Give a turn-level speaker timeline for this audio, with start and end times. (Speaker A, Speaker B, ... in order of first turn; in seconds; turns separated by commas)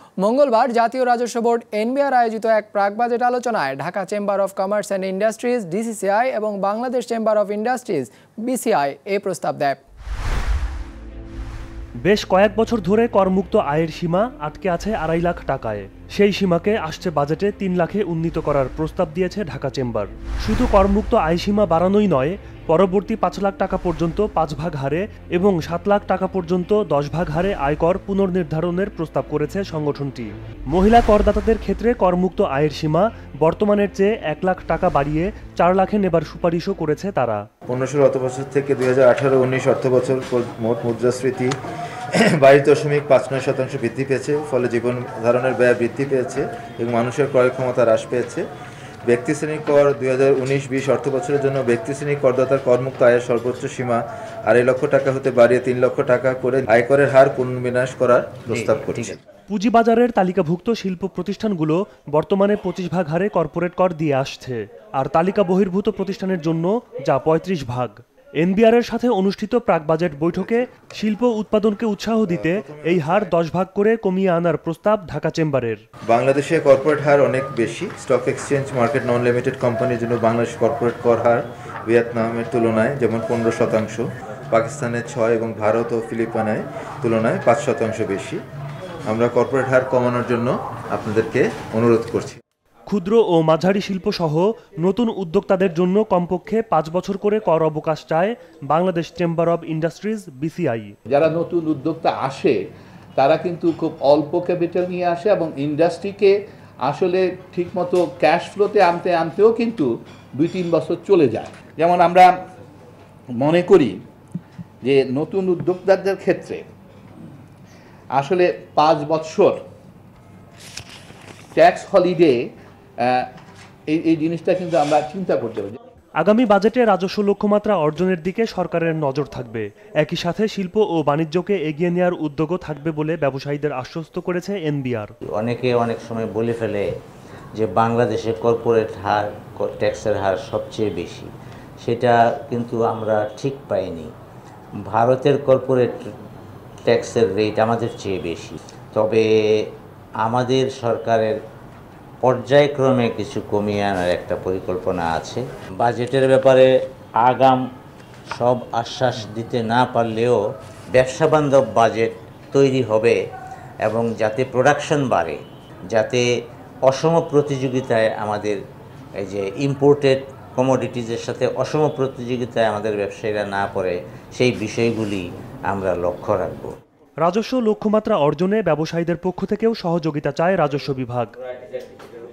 Speaker A: 0.2-9.8, Speaker B: 12.1-37.4, Speaker C: 37.7-41.5, Speaker C: 42.2-48.4, Speaker C: 49.1-59.2, Speaker D: 58.5-59.2, Speaker B: 59.5-75.8, Speaker C: 72.3-73.3, Speaker C: 76.1-88.4, Speaker C: 89.1-92.4, Speaker B: 92.9-101.0, Speaker E: 101.1-102.6, Speaker E: 103.2-112.3, Speaker E: 113.4-114.0, Speaker E: 114.8-116.6, Speaker E: 118.1-119.6, Speaker E: 121.5-122.4, Speaker E: 123.0-123.3, Speaker E: 123.9-125.8, Speaker B: 126.2-135.1, Speaker D: 135.3-136.9, Speaker D: 137.6-141.3, Speaker D: 141.8-144.1, Speaker D: 144.8-146.1, Speaker D: 146.9-151.4, Speaker D: 152.2-157.6, Speaker D: 158.3-163.2, Speaker D: 163.8-166.3, Speaker D: 166.9-168.6, Speaker D: 169.2-176.7, Speaker B: 177.2-181.4